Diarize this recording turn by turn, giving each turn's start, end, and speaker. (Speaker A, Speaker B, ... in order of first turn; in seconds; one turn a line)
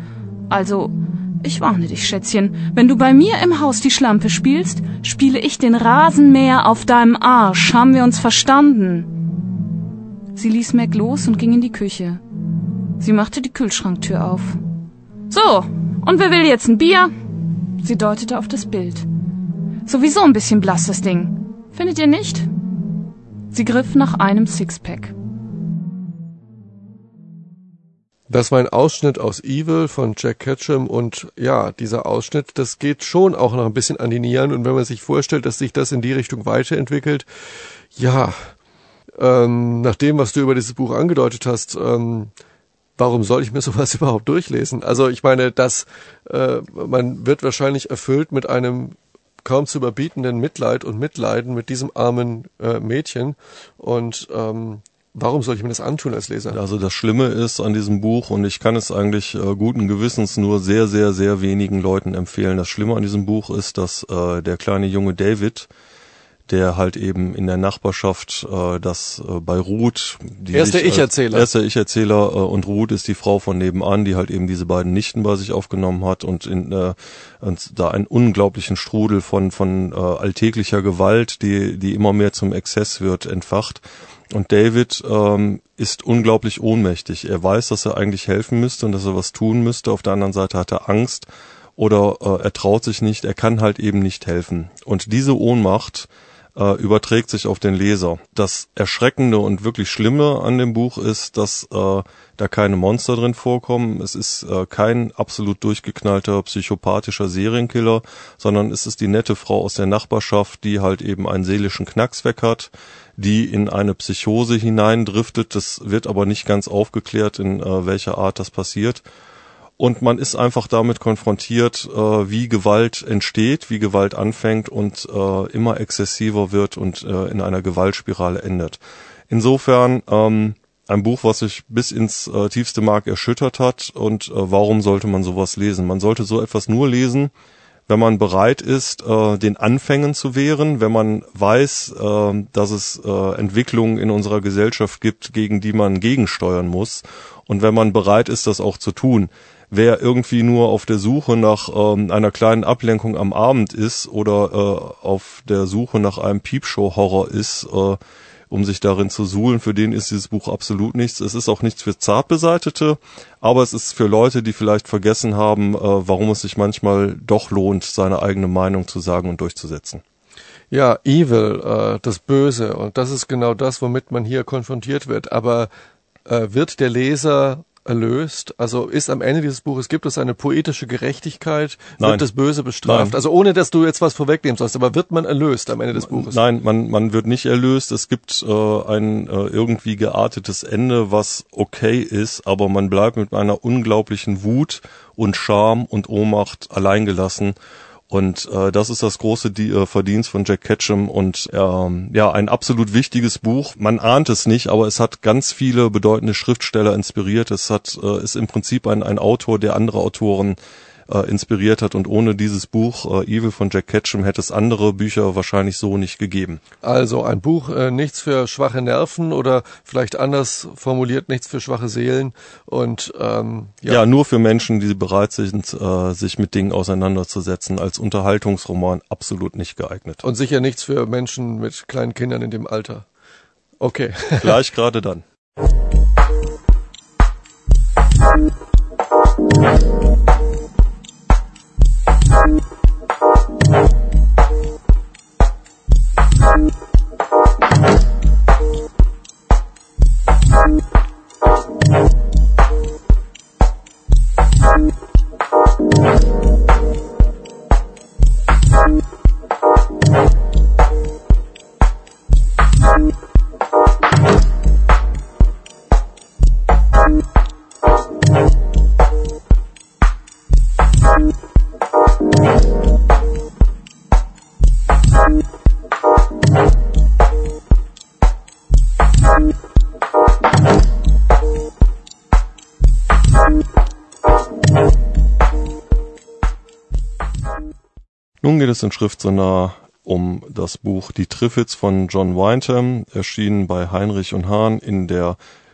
Speaker A: 0.5-9.1
Speaker A: 10.3-12.2
Speaker A: 13.0-14.6
Speaker A: 15.3-17.1
Speaker A: 17.8-19.1
Speaker A: 19.9-22.5
Speaker A: 23.5-25.1
Speaker B: 28.3-37.2
Speaker B: 37.9-38.5
Speaker B: 39.2-42.3
Speaker B: 43.0-56.6
Speaker C: 56.5-65.7
Speaker C: 66.5-83.8
Speaker B: 70.5-71.5
Speaker C: 84.3-119.0
Speaker C: 119.8-137.3
Speaker C: 137.9-158.0
Speaker C: 158.5-170.0
Speaker B: 170.7-175.7
Speaker B: 176.2-186.4
Speaker C: 182.0-182.2
Speaker C: 182.8-183.2
Speaker C: 186.0-197.6
Speaker C: 198.1-210.6
Speaker C: 211.1-216.6
Speaker B: 216.8-224.0
Speaker C: 223.9-230.2
Speaker B: 230.2-233.1
Speaker B: 233.8-234.6
Speaker C: 234.4-235.2
Speaker C: 288.4-295.4